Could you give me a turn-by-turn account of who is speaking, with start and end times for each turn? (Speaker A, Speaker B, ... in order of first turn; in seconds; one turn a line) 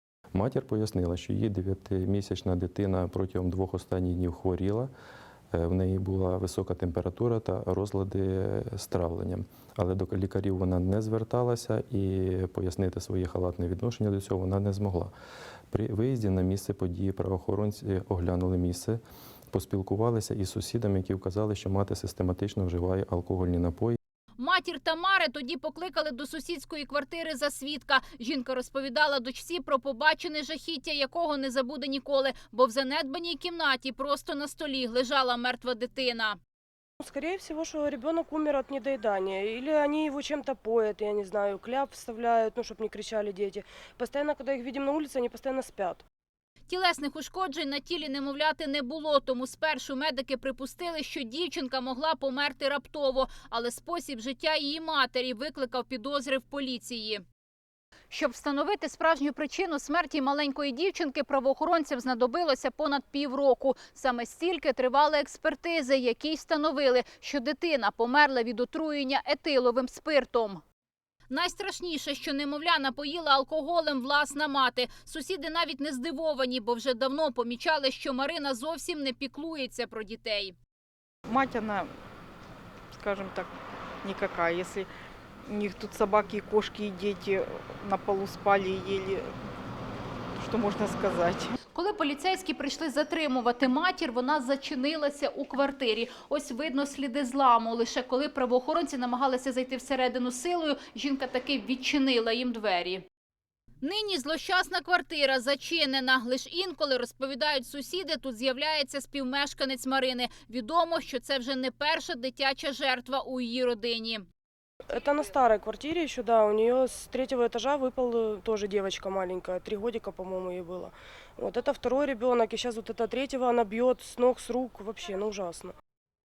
Speaker A: 0.3-4.9
Speaker A: 5.5-15.1
Speaker A: 15.7-19.0
Speaker A: 19.5-24.0
Speaker B: 24.4-36.4
Speaker C: 37.0-46.0
Speaker B: 46.7-57.2
Speaker B: 58.1-70.6
Speaker B: 71.3-80.5
Speaker D: 81.3-81.9
Speaker D: 83.0-83.5
Speaker D: 84.0-84.9
Speaker D: 85.5-89.3
Speaker D: 90.3-91.6
Speaker B: 91.7-103.0
Speaker B: 103.8-114.2
Speaker C: 114.9-125.8